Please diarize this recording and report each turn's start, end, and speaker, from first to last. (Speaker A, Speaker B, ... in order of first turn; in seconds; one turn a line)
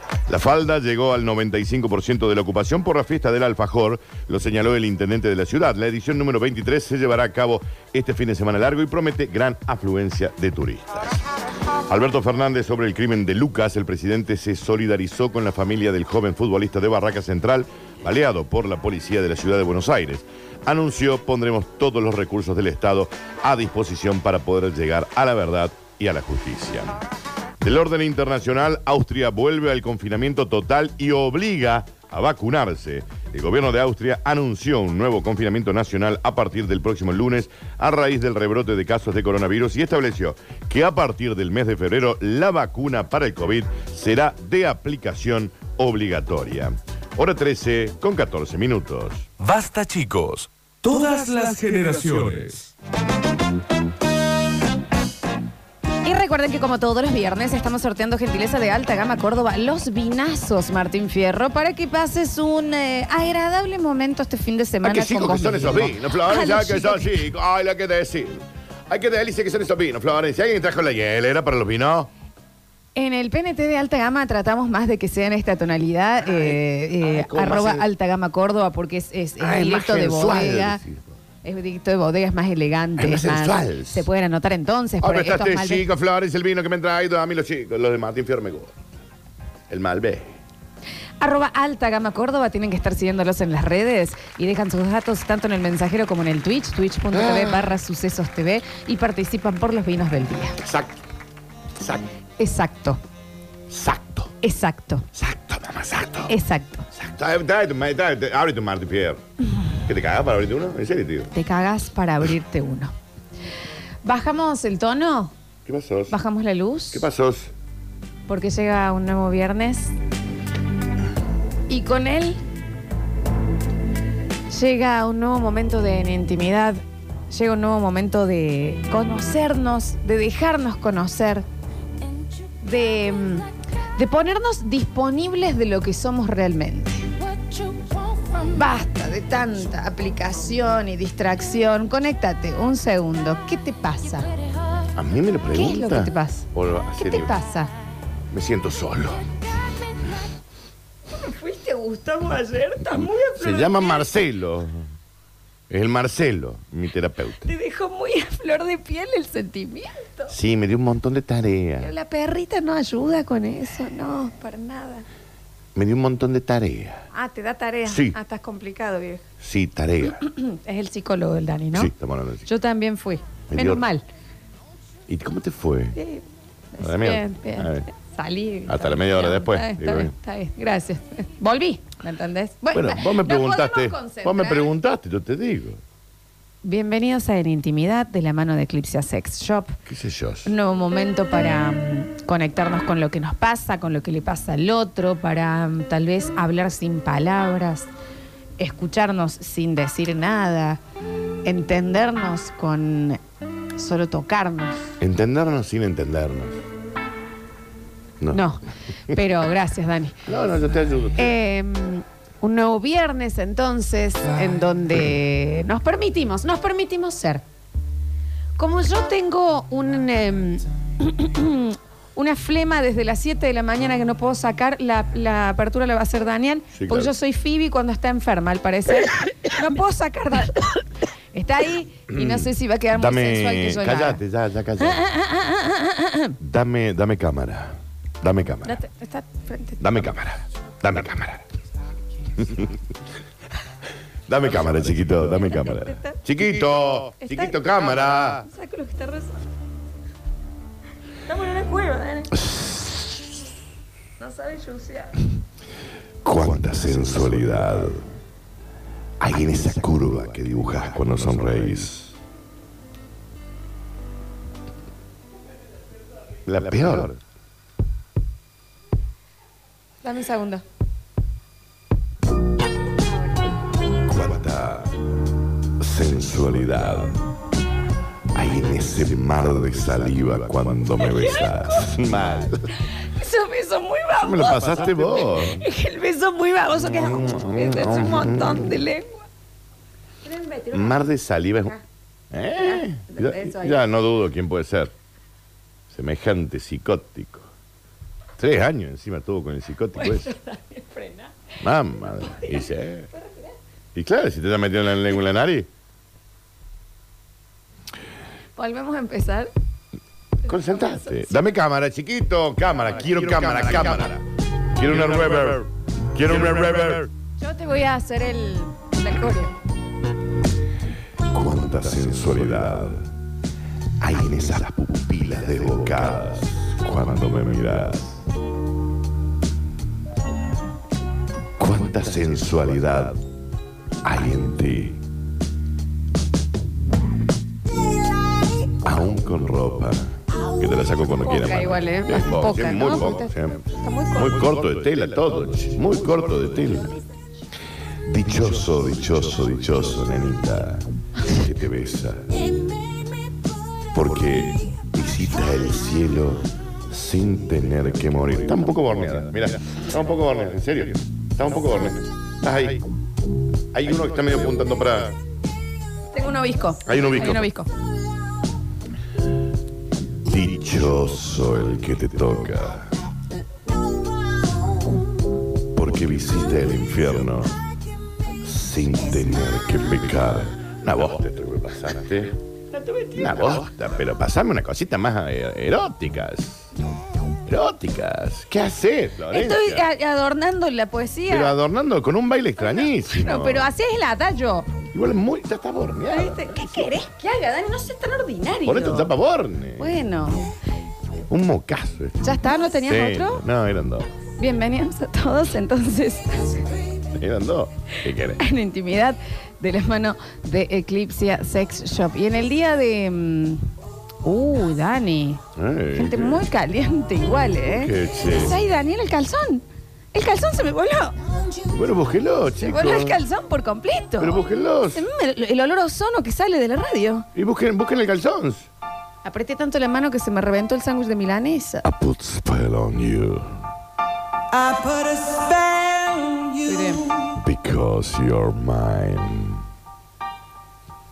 Speaker A: 0.3-10.9
Speaker A: 11.9-26.9
Speaker A: 27.6-49.4
Speaker B: 49.4-52.7
Speaker C: 56.0-67.3
Speaker A: 64.8-72.1
Speaker C: 73.0-80.8
Speaker A: 76.3-77.9
Speaker A: 79.4-81.1
Speaker C: 81.4-85.8
Speaker A: 83.0-84.1
Speaker A: 85.0-88.8
Speaker A: 89.7-90.4
Speaker C: 91.2-100.6
Speaker A: 97.1-97.7
Speaker A: 100.6-100.9
Speaker A: 101.8-102.0
Speaker C: 102.4-103.0
Speaker A: 103.7-104.3
Speaker C: 104.4-105.1
Speaker A: 105.2-106.3
Speaker C: 106.3-106.9
Speaker A: 106.9-109.2
Speaker A: 109.8-111.3
Speaker C: 111.3-112.9
Speaker C: 114.0-115.3
Speaker A: 115.7-116.2
Speaker C: 116.1-117.0
Speaker A: 116.9-117.5
Speaker C: 118.3-120.0
Speaker C: 121.7-122.4
Speaker C: 124.5-131.4
Speaker C: 132.6-137.2
Speaker C: 138.2-144.3
Speaker A: 144.9-147.3
Speaker C: 145.5-147.7
Speaker A: 148.3-149.3
Speaker C: 151.1-154.1
Speaker A: 153.3-154.9
Speaker A: 155.7-157.5
Speaker C: 157.4-160.3
Speaker A: 160.3-161.9
Speaker C: 161.8-165.1
Speaker A: 165.8-167.1
Speaker C: 167.1-169.2
Speaker A: 167.9-168.2
Speaker A: 169.4-170.2
Speaker C: 170.1-171.9
Speaker A: 171.7-172.5
Speaker C: 172.5-174.1
Speaker A: 173.5-173.8
Speaker A: 175.1-176.0
Speaker C: 175.9-184.7
Speaker A: 176.8-177.9
Speaker A: 178.7-180.1
Speaker A: 182.7-185.8
Speaker C: 186.6-189.8
Speaker A: 189.9-190.5
Speaker C: 190.4-197.9
Speaker C: 198.6-200.8
Speaker C: 201.4-203.2
Speaker C: 203.8-204.9
Speaker A: 205.0-206.6
Speaker A: 208.2-208.4
Speaker C: 208.3-210.2
Speaker A: 210.3-211.3
Speaker C: 211.2-217.4
Speaker C: 218.6-234.2
Speaker A: 226.7-227.1
Speaker A: 232.1-235.1
Speaker C: 234.8-236.4
Speaker A: 236.4-238.8
Speaker C: 238.6-240.1
Speaker A: 239.8-241.4
Speaker A: 242.3-242.8
Speaker A: 244.3-248.5
Speaker C: 245.3-246.2
Speaker C: 247.2-249.5
Speaker C: 251.3-252.4
Speaker A: 252.3-253.1
Speaker C: 254.2-255.1
Speaker A: 256.2-258.1
Speaker A: 259.2-262.1
Speaker A: 266.5-267.2
Speaker C: 270.0-270.6
Speaker C: 273.1-273.3
Speaker A: 274.1-274.9
Speaker A: 275.8-277.2
Speaker A: 278.3-282.8
Speaker C: 281.0-281.9
Speaker C: 282.9-289.3
Speaker A: 284.2-285.6
Speaker A: 286.9-288.8
Speaker C: 290.2-291.1
Speaker A: 290.7-291.8
Speaker A: 292.3-294.9
Speaker C: 292.6-293.8
Speaker A: 295.9-297.5
Speaker A: 298.4-300.3
Speaker C: 300.0-301.4
Speaker A: 301.6-303.1
Speaker C: 302.1-303.6
Speaker A: 303.9-305.7
Speaker C: 308.6-309.5
Speaker A: 310.4-314.2
Speaker C: 310.5-311.3
Speaker A: 314.8-317.1
Speaker B: 315.0-315.5
Speaker C: 317.4-319.6
Speaker A: 321.3-323.1
Speaker A: 324.0-328.2
Speaker A: 331.6-333.2
Speaker A: 334.0-335.0
Speaker A: 338.8-343.6
Speaker C: 341.2-344.5
Speaker A: 344.1-347.0
Speaker A: 348.1-352.4
Speaker A: 353.9-362.8
Speaker A: 363.7-365.2
Speaker C: 366.1-367.7
Speaker A: 366.9-367.5
Speaker A: 370.2-372.9
Speaker A: 375.7-377.6
Speaker A: 378.4-382.4
Speaker C: 382.7-383.7
Speaker A: 383.1-386.7
Speaker A: 387.5-389.9
Speaker C: 389.3-391.6
Speaker A: 391.3-393.7
Speaker C: 392.6-394.7
Speaker A: 394.9-396.9
Speaker C: 396.1-399.1
Speaker A: 398.7-400.0
Speaker C: 399.8-400.4
Speaker A: 401.3-404.1
Speaker C: 402.2-403.4
Speaker C: 404.4-406.7
Speaker A: 407.1-408.4
Speaker C: 408.4-413.7
Speaker C: 414.2-415.4
Speaker A: 415.6-416.4
Speaker C: 415.9-421.2
Speaker A: 417.7-418.6
Speaker A: 421.7-423.2
Speaker C: 422.6-427.3
Speaker A: 424.2-425.1
Speaker A: 427.4-428.7
Speaker C: 429.2-431.9
Speaker A: 431.8-433.6
Speaker D: 434.5-436.9
Speaker C: 436.6-437.1
Speaker A: 437.3-439.6